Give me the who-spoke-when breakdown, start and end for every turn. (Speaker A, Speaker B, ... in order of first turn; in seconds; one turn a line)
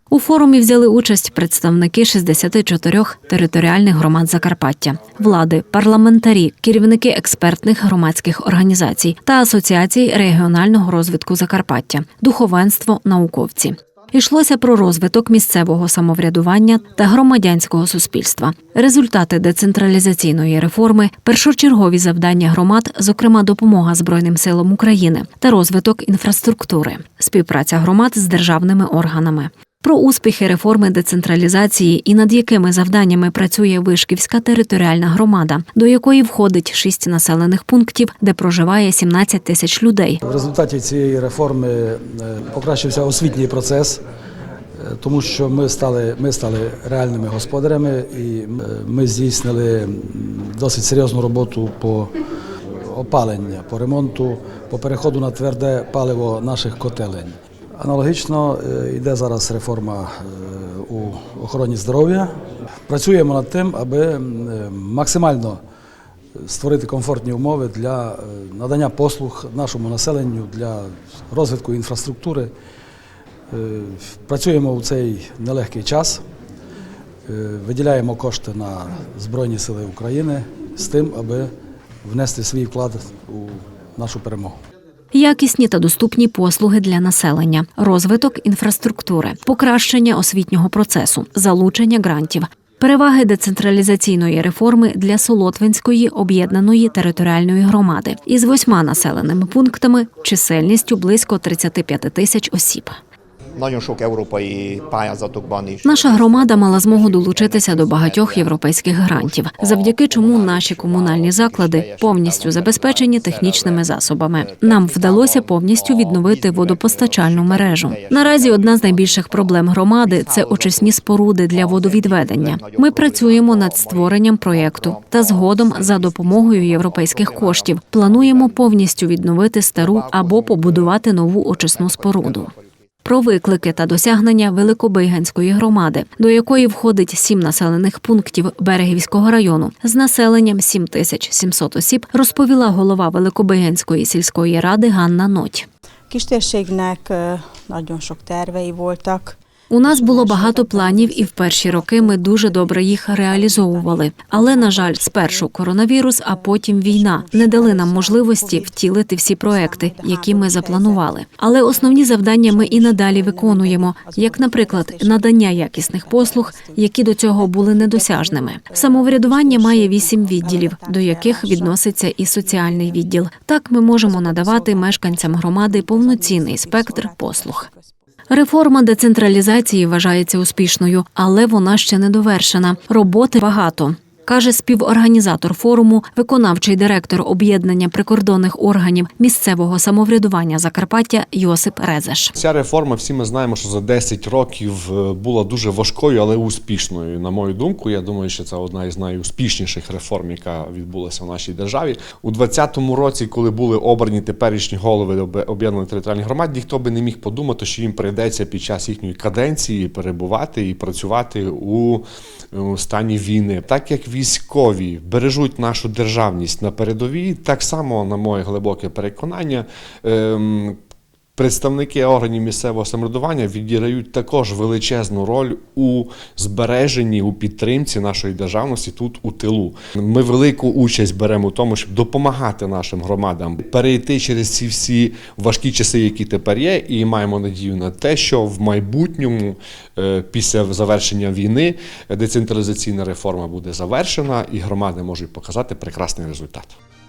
Speaker A: 0.1-40.2
Speaker B: 40.2-44.0
Speaker B: 44.8-52.1
Speaker B: 52.8-62.3
Speaker B: 62.9-65.6
Speaker B: 66.4-72.5
Speaker B: 73.5-76.2
Speaker B: 77.3-81.5
Speaker B: 82.0-84.6
Speaker A: 85.1-103.0
Speaker C: 103.5-128.7
Speaker A: 105.8-132.5
Speaker C: 129.8-132.7
Speaker A: 133.0-145.7
Speaker D: 146.1-155.5
Speaker A: 149.7-177.7
Speaker D: 156.3-158.8
Speaker D: 159.4-161.1
Speaker D: 161.7-171.8
Speaker D: 172.4-173.0
Speaker D: 174.0-177.9
Speaker A: 178.3-192.3
Speaker E: 192.4-220.8
Speaker E: 221.4-246.8